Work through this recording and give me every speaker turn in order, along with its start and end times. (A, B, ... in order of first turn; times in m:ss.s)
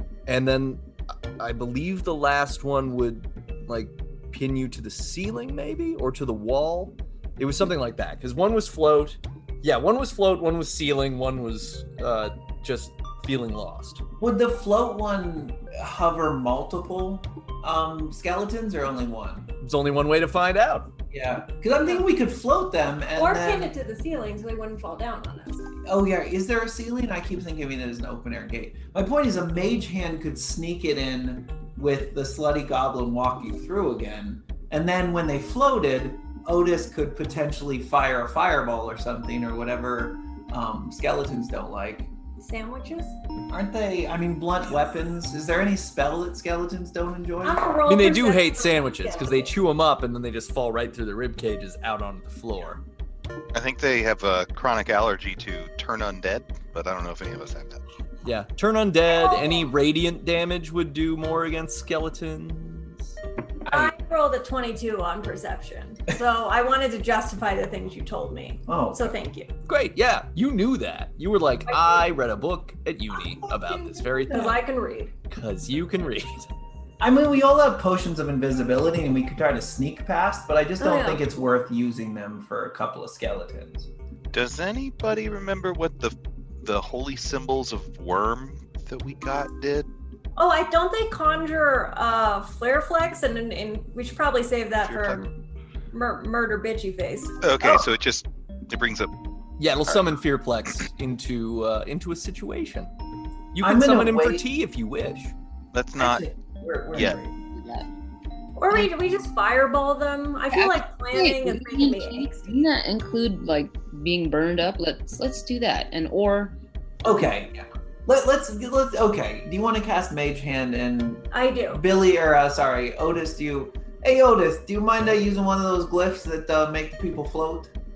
0:00.3-0:00.8 A
0:01.4-0:14.0 A
0:14.2-0:19.5 B
0:19.6-0:20.9 A
0:21.1-0:23.7 B
0:23.2-0:25.8 C
0:25.9-0:42.1 B
0:42.4-0:43.2 C
0:43.5-0:47.6 B
0:47.4-0:49.5 C
0:47.9-0:52.8 A
0:53.5-0:57.8 D
0:58.2-1:03.1 A
0:59.1-0:59.7 C
1:03.7-1:09.5 C
1:03.7-1:03.9 B
1:08.7-1:09.2 B
1:09.7-1:14.6 A
1:11.7-1:12.0 C
1:13.4-1:14.6 B
1:14.3-1:15.1 C
1:15.3-1:16.5 A
1:17.0-1:23.9 B
1:20.8-1:21.2 C
1:24.3-1:29.9 D
1:30.4-1:35.3 C
1:34.8-1:35.2 D
1:35.9-1:37.4 C
1:37.4-1:39.1 D
1:37.6-1:37.9 B
1:39.6-1:42.9 A
1:43.5-1:45.3 A
1:43.6-1:44.4 B
1:45.7-1:46.2 D
1:46.0-1:47.4 B
1:47.5-1:47.9 E
1:48.6-1:52.6 C
1:50.5-1:56.6 E
1:57.0-2:07.7 B
2:01.3-2:01.8 C